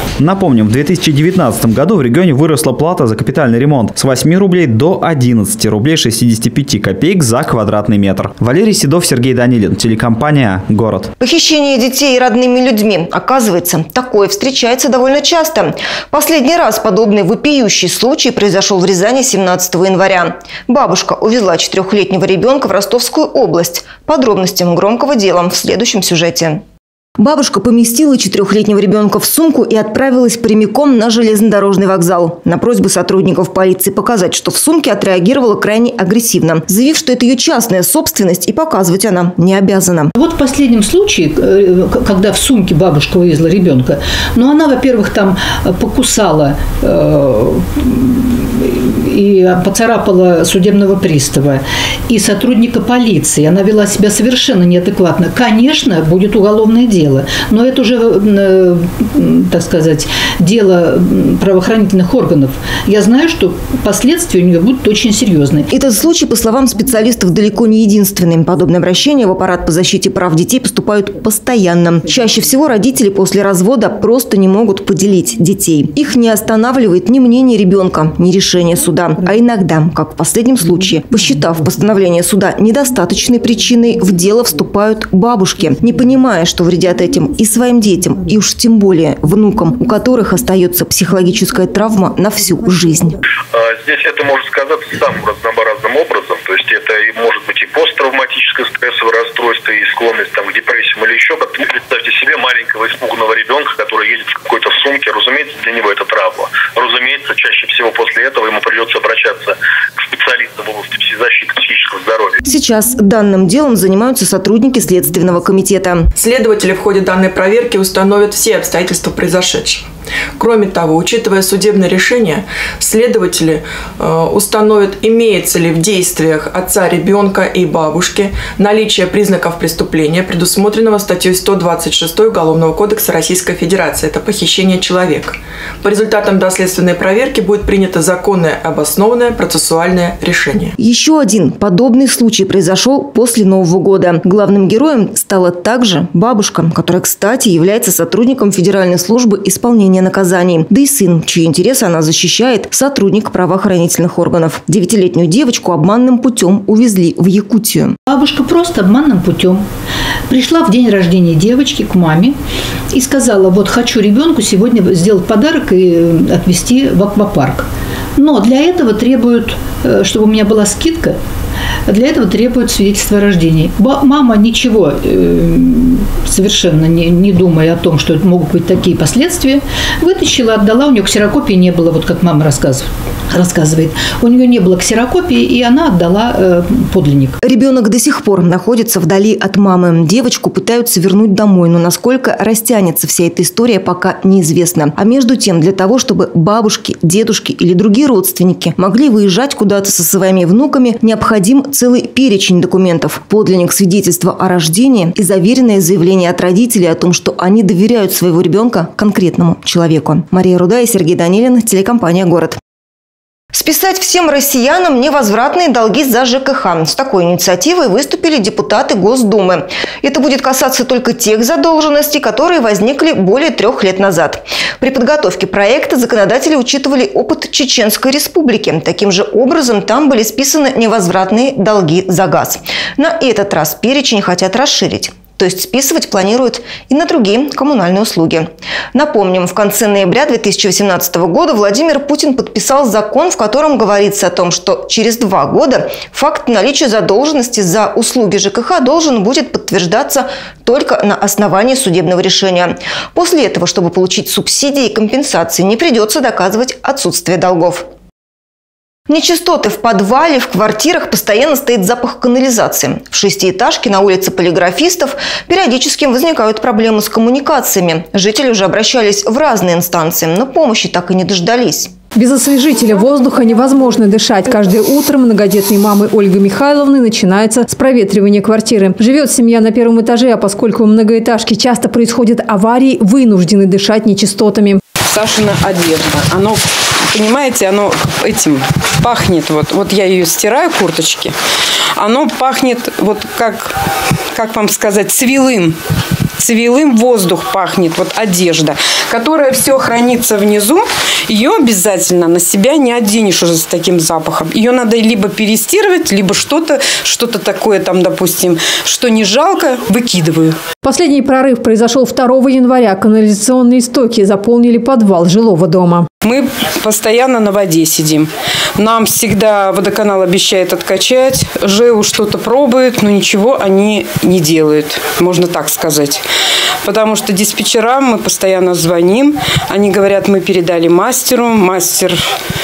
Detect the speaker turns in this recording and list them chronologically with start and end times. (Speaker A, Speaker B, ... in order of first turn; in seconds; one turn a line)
Speaker A: 0.2-11.1
Speaker B: 11.2-26.6
Speaker B: 27.2-40.1
Speaker C: 40.1-65.7
Speaker B: 65.7-93.2
Speaker D: 93.5-112.3
Speaker B: 112.5-116.1
Speaker E: 116.2-119.8
Speaker E: 120.4-140.7
Speaker B: 140.8-157.9
Speaker C: 158.1-159.6
Speaker C: 160.3-162.3
Speaker C: 162.9-171.2
Speaker C: 171.9-187.3
Speaker B: 187.4-212.6
Speaker B: 213.5-257.9
Speaker B: 259.1-271.9
Speaker F: 272.1-284.8
Speaker G: 285.0-291.3
Speaker G: 292.0-293.7
Speaker G: 294.3-295.8
Speaker G: 296.4-310.6
Speaker F: 310.8-316.1
Speaker G: 316.2-326.2
Speaker G: 326.8-332.3